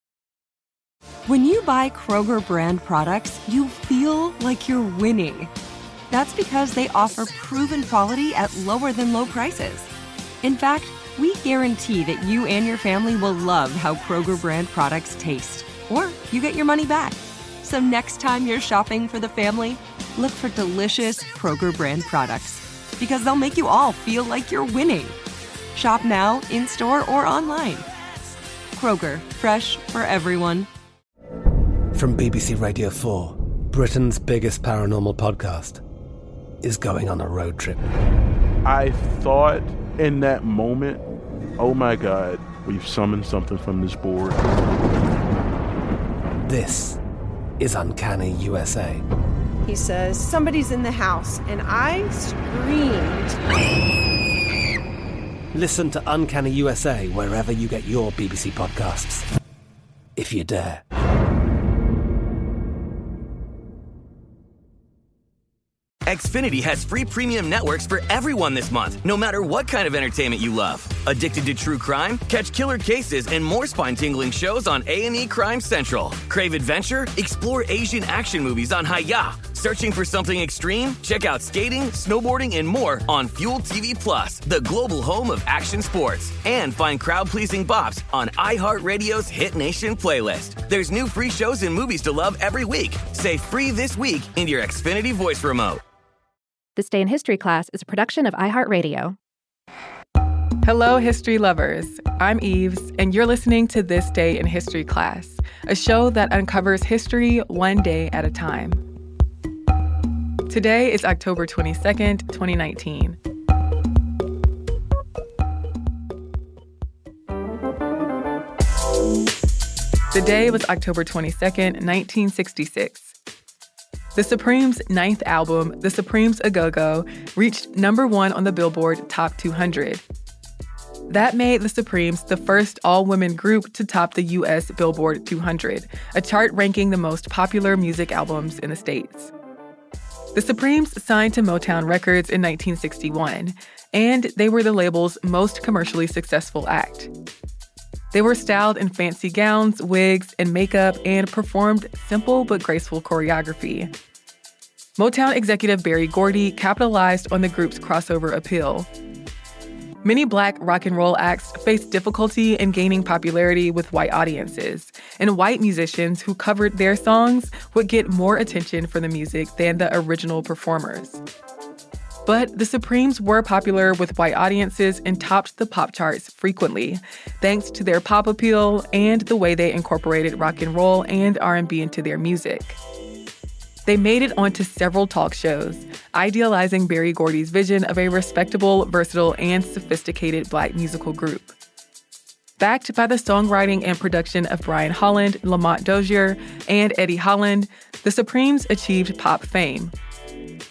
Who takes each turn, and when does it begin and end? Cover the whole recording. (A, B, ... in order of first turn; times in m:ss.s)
0:01.2-0:05.5 A
0:06.1-0:09.9 A
0:10.4-0:25.2 A
0:25.7-0:27.9 A
0:28.7-0:30.7 A
0:31.9-0:35.8 B
0:36.6-0:37.8 B
0:38.6-0:41.0 C
0:41.6-0:44.4 C
0:46.4-0:47.0 B
0:47.6-0:49.0 B
0:49.6-0:53.4 D
0:55.5-0:59.2 B
1:00.2-1:00.8 B
1:06.0-1:35.8 E
1:36.8-1:39.2 F
1:40.6-1:48.8 G
1:50.5-1:53.2 G
2:00.1-2:03.1 G
2:04.1-2:10.0 G
2:11.1-2:19.3 G
2:20.3-2:27.1 G
2:28.1-2:33.9 G
2:35.0-2:38.9 G
2:40.0-2:51.2 G
2:52.2-3:02.8 G
3:03.8-3:11.5 G
3:12.6-3:19.9 G